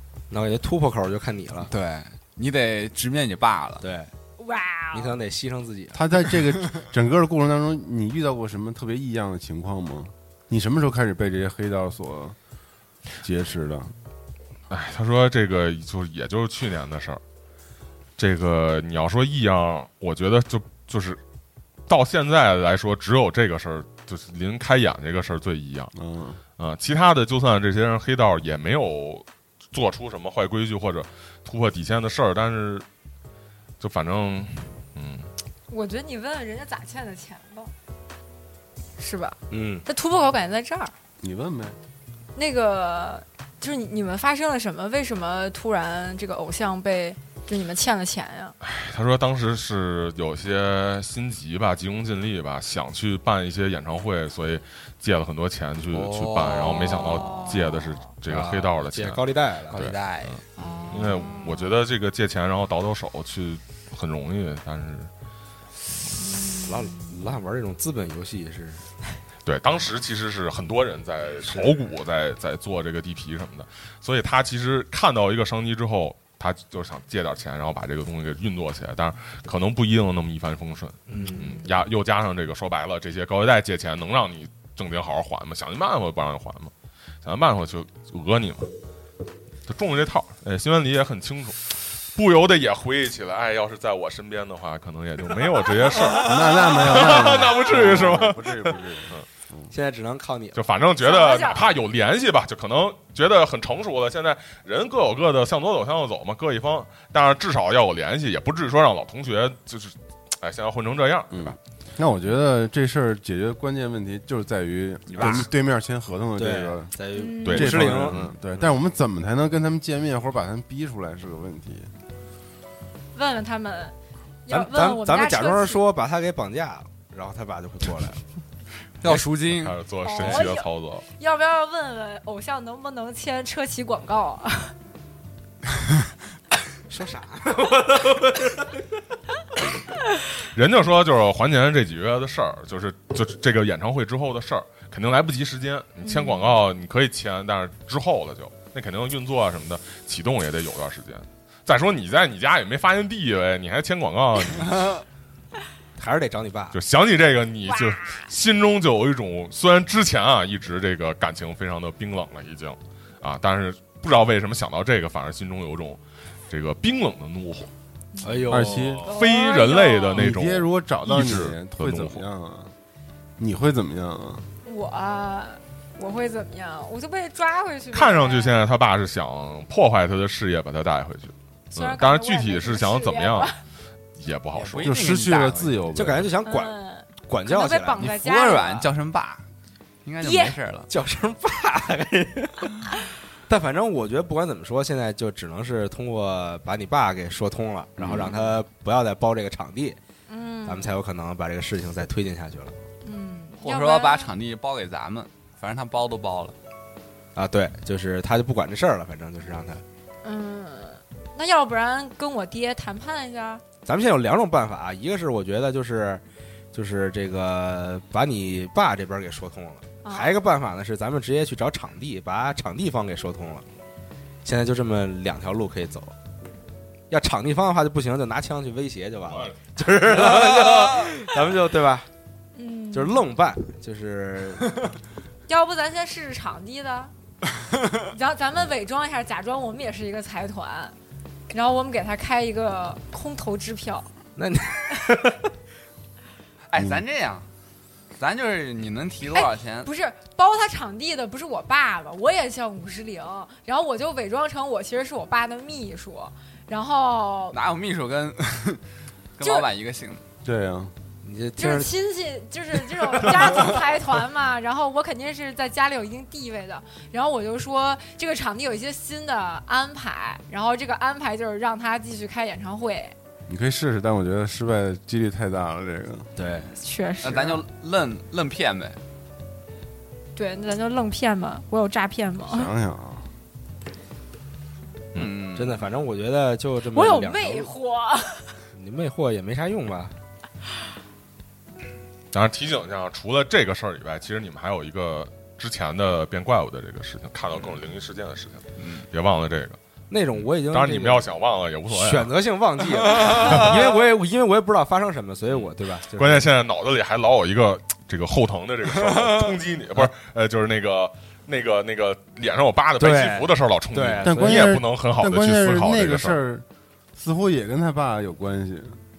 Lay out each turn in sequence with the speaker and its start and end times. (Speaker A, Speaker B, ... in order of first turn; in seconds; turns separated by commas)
Speaker A: 0.3-1.7, Speaker B: 1.7-3.8, Speaker A: 3.8-4.1, Speaker C: 4.4-5.1, Speaker A: 4.9-6.0, Speaker D: 5.9-12.4, Speaker D: 13.2-13.9, Speaker E: 14.7-17.2, Speaker E: 18.2-21.2, Speaker E: 21.9-25.9, Speaker D: 25.9-26.4, Speaker E: 26.6-32.8, Speaker E: 33.8-35.3, Speaker C: 35.7-37.7, Speaker C: 39.0-40.9, Speaker A: 39.5-39.8, Speaker D: 41.2-41.8, Speaker C: 42.3-48.5, Speaker E: 48.6-65.1, Speaker B: 55.9-57.4, Speaker C: 56.7-57.9, Speaker A: 58.3-59.9, Speaker B: 59.7-60.6, Speaker C: 60.6-61.7, Speaker C: 66.2-67.1, Speaker A: 66.5-68.8, Speaker E: 69.4-86.7, Speaker A: 81.1-81.6, Speaker C: 81.1-81.6, Speaker E: 87.2-88.7, Speaker E: 89.7-99.2, Speaker D: 96.2-99.7, Speaker A: 99.7-100.6, Speaker E: 100.5-111.6, Speaker C: 101.0-101.7, Speaker D: 111.3-116.9, Speaker A: 115.2-115.5, Speaker A: 116.3-118.2, Speaker C: 117.1-117.8, Speaker E: 117.4-118.3, Speaker D: 117.5-121.9, Speaker C: 123.1-123.9, Speaker C: 124.5-125.8, Speaker A: 124.5-128.2, Speaker B: 129.0-129.8, Speaker E: 129.5-131.0, Speaker C: 130.0-134.7, Speaker A: 136.9-138.7, Speaker E: 140.4-154.9, Speaker C: 146.0-146.6, Speaker A: 156.0-156.8, Speaker E: 156.7-167.7, Speaker C: 157.7-158.2, Speaker C: 168.1-170.3, Speaker A: 168.2-169.0, Speaker D: 168.5-169.1, Speaker E: 168.7-172.2, Speaker D: 170.1-172.7, Speaker D: 173.4-174.5, Speaker C: 174.6-178.6, Speaker E: 177.9-183.5, Speaker C: 181.7-183.6, Speaker E: 184.2-185.2, Speaker B: 184.5-185.9, Speaker D: 184.8-186.3, Speaker A: 185.9-188.1, Speaker C: 186.4-188.9, Speaker B: 188.0-189.4, Speaker B: 190.0-190.9, Speaker C: 190.2-190.6, Speaker A: 190.9-192.9, Speaker A: 193.5-200.0, Speaker D: 198.0-198.4, Speaker C: 200.3-200.9, Speaker A: 200.7-202.7, Speaker C: 203.0-204.3, Speaker B: 203.6-206.5, Speaker A: 207.3-209.8, Speaker C: 210.2-213.6, Speaker A: 213.8-223.6, Speaker C: 220.0-220.4, Speaker A: 224.4-226.1, Speaker A: 227.1-232.1, Speaker E: 229.2-229.6, Speaker C: 232.5-233.2, Speaker A: 232.9-234.8, Speaker C: 235.5-237.1, Speaker C: 238.0-240.9, Speaker C: 241.5-244.1, Speaker A: 244.4-245.5, Speaker B: 246.7-247.4, Speaker D: 246.8-247.0, Speaker B: 248.1-249.9, Speaker C: 249.3-257.6, Speaker B: 257.5-258.8, Speaker B: 259.4-260.2, Speaker C: 259.4-259.7, Speaker D: 260.4-260.9, Speaker A: 261.2-261.9, Speaker C: 261.6-273.1, Speaker A: 262.9-263.8, Speaker D: 273.5-276.3, Speaker A: 276.4-276.8, Speaker C: 276.8-277.6, Speaker B: 277.2-279.0, Speaker C: 280.4-282.7, Speaker D: 282.4-283.3, Speaker B: 285.1-285.9, Speaker A: 285.1-287.7, Speaker C: 286.9-288.5, Speaker A: 288.7-290.1, Speaker E: 292.3-299.8, Speaker B: 298.8-299.1, Speaker A: 300.1-301.3, Speaker E: 300.3-302.3, Speaker A: 301.9-306.5, Speaker B: 303.0-303.9, Speaker E: 303.1-303.9, Speaker E: 305.5-316.4, Speaker A: 313.0-314.8, Speaker D: 314.2-319.0